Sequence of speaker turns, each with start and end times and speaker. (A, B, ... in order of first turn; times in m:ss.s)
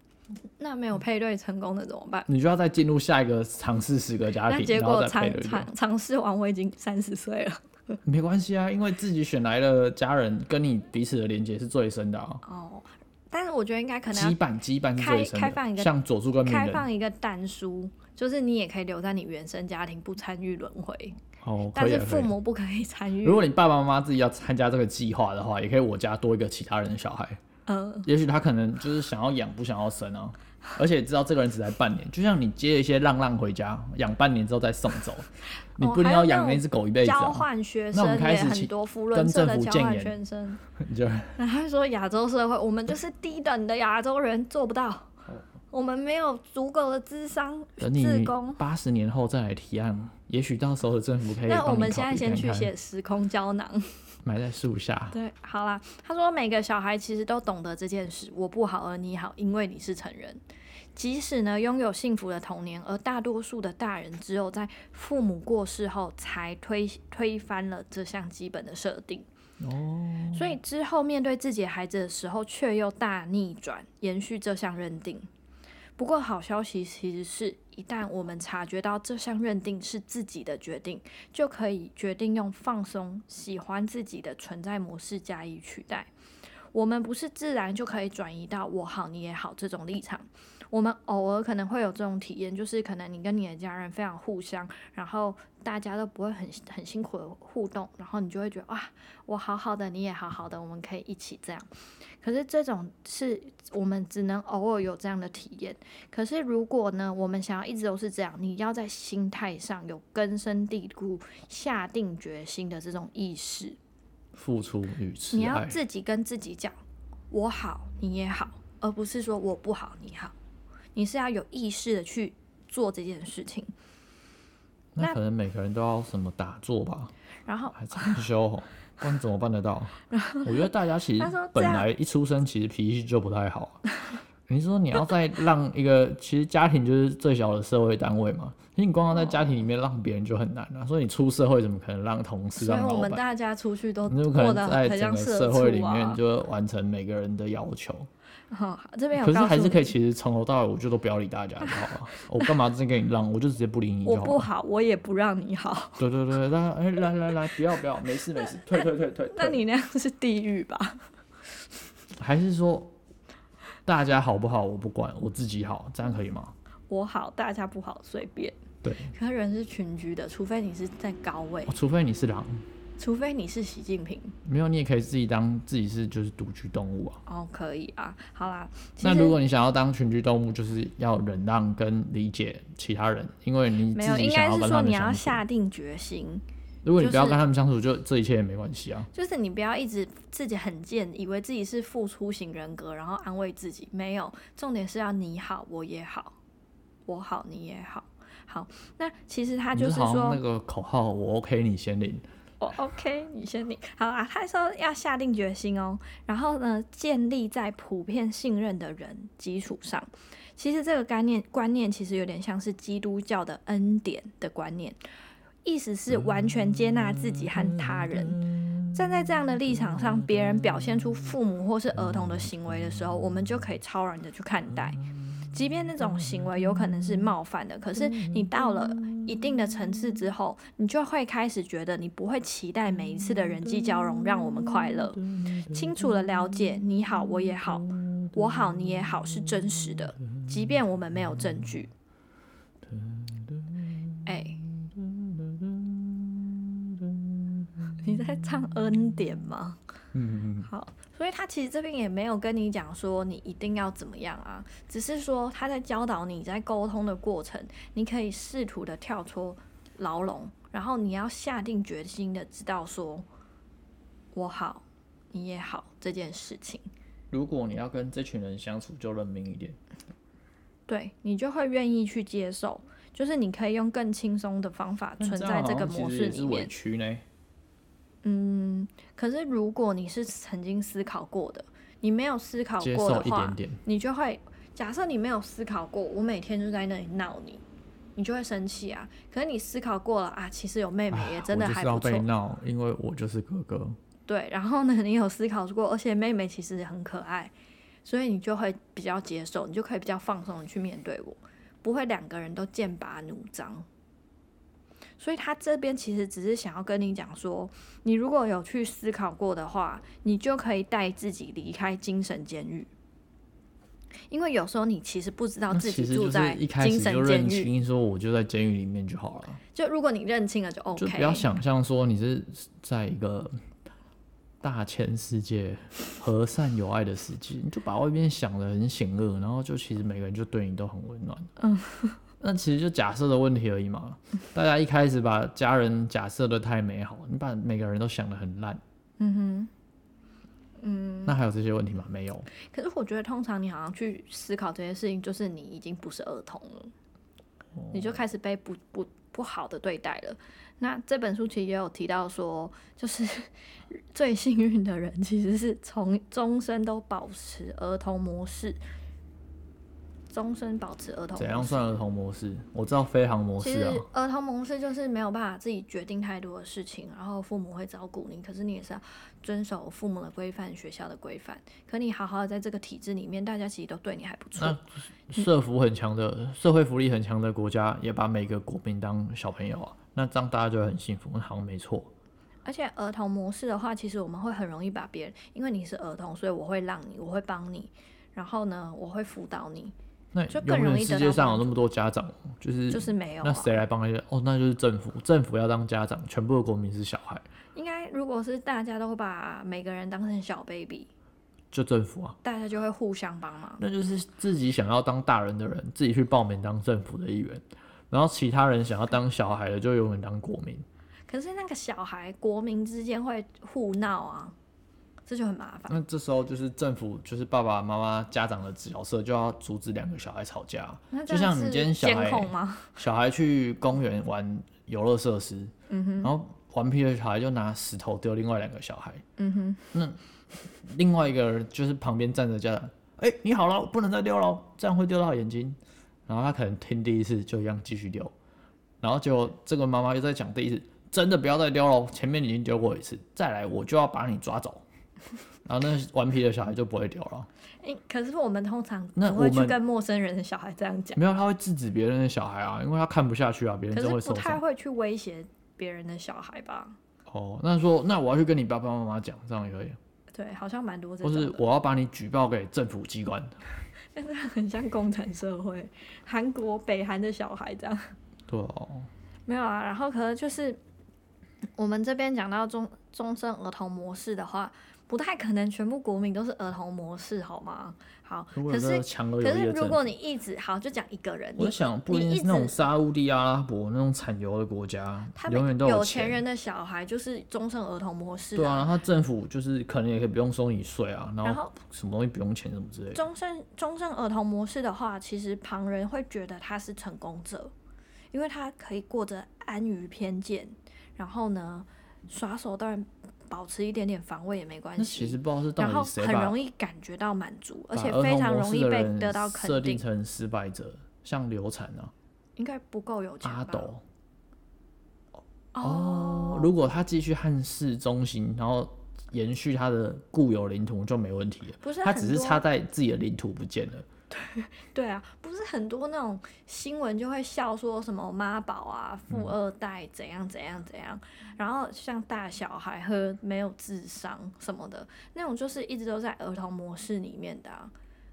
0:00.6-0:02.3 A
0:02.3-0:05.7 B
0:04.5-0:08.0 A
0:08.0-0:12.4 B
0:12.4-0:14.4 A
0:14.1-0:16.8 B
0:15.0-0:15.9 A
0:16.4-0:21.2 A
0:21.4-0:22.3 B
0:21.7-0:23.4 A
0:23.2-0:27.4 B
0:27.7-0:28.1 A
0:28.0-0:40.1 B
0:35.8-0:40.6 A
0:40.7-0:41.4 B
0:41.4-0:45.2 A
0:45.7-0:48.6 A
0:47.8-0:52.7 B
0:51.4-0:54.0 A
0:54.2-0:55.2 B
0:55.1-1:00.4 A
1:01.0-1:09.3 A
1:09.6-1:10.5 B
1:10.3-1:15.3 A
1:16.0-1:26.1 A
1:26.7-1:41.7 A
1:42.2-1:53.8 A
1:54.3-1:55.8 B
1:55.3-1:56.8 A
1:57.3-2:00.3 A
2:00.9-2:03.7 A
2:05.0-2:07.1 B
2:07.4-2:08.1 A
2:07.7-2:13.8 B
2:10.1-2:11.9 A
2:14.5-2:23.2 B
2:19.1-2:19.6 A
2:22.6-2:26.2 A
2:24.1-2:28.1 B
2:28.5-2:29.9 A
2:29.1-2:34.5 B
2:31.6-2:32.5 A
2:34.0-2:36.0 A
2:36.0-2:39.6 B
2:38.7-2:41.1 A
2:42.2-2:42.9 B
2:43.8-2:46.5 B
2:46.9-2:48.6 A
2:48.8-2:49.1 B
2:49.1-2:51.8 A
2:51.7-2:52.6 B
2:53.0-2:54.4 A
2:54.4-2:57.2 B
2:57.2-2:59.4 A
2:59.0-3:05.4 B
3:03.9-3:06.4 A
3:06.8-3:09.1 B
3:07.0-3:07.4 A
3:09.1-3:16.4 A
3:17.0-3:20.4 A
3:19.7-3:22.2 B
3:22.6-3:35.0 A
3:35.6-4:01.9 A
3:37.4-3:37.9 B
3:38.6-3:39.0 B
3:40.0-3:41.0 B
3:42.0-3:42.4 B
3:48.1-3:49.3 B
3:53.5-3:55.9 B
3:57.9-3:58.3 B
4:00.2-4:00.5 B
4:02.8-4:07.9 B
4:04.2-4:04.6 A
4:08.0-4:09.8 A
4:10.1-4:10.7 B
4:10.6-4:23.2 A
4:24.3-4:26.9 A
4:27.3-4:29.8 B
4:30.9-4:36.7 A
4:35.2-4:37.2 B
4:38.2-4:47.6 A
4:42.8-4:43.8 B
4:48.2-4:52.3 A
4:51.1-4:54.0 B
4:54.3-5:03.9 A
5:05.2-5:12.9 A
5:14.3-5:17.7 A
5:15.7-5:19.6 B
5:19.7-5:21.5 A
5:21.0-5:23.6 B
5:24.6-5:31.5 B
5:31.6-5:32.2 A
5:32.4-5:38.8 B
5:39.2-5:39.7 A
5:40.8-5:41.3 A
5:41.2-5:42.5 B
5:42.5-5:46.9 A
5:47.8-5:48.1 B
5:47.9-5:58.8 A
6:00.3-6:01.8 A
6:01.4-6:04.0 B
6:03.6-6:14.8 A
6:14.6-6:22.1 B
6:22.6-6:29.9 A
6:30.3-6:37.4 B
6:30.5-6:31.8 A
6:32.9-6:33.7 A
6:37.7-6:41.1 A
6:41.7-6:42.4 B
6:42.4-6:43.8 A
6:43.8-6:50.8 B
6:51.3-6:54.6 A
6:55.2-6:56.0 A
6:55.9-7:09.2 B
7:01.1-7:03.0 A
7:05.9-7:06.3 A
7:09.4-7:09.9 A
7:09.9-7:10.2 B
7:10.8-7:18.3 B
7:19.0-7:24.8 B
7:25.6-7:27.5 B
7:27.8-7:31.2 A
7:29.2-7:29.8 B
7:31.1-7:34.6 B
7:33.9-7:37.0 A
7:37.3-7:40.0 B
7:40.3-7:41.6 A
7:41.2-7:43.6 B
7:44.1-7:48.1 A
7:48.5-7:49.1 B
7:49.4-7:50.8 A
7:51.8-8:02.8 A
7:58.5-8:00.1 B
8:01.6-8:06.4 B
8:05.3-8:08.9 A
8:08.5-8:13.2 B
8:11.4-8:11.8 A
8:13.1-8:17.7 A
8:18.3-8:30.0 A
8:25.0-8:26.6 B
8:27.9-8:32.1 B
8:32.6-8:33.9 A
8:33.4-8:34.0 B
8:35.7-8:36.8 A
8:35.8-8:44.0 B
8:41.8-8:42.6 A
8:44.3-8:57.9 A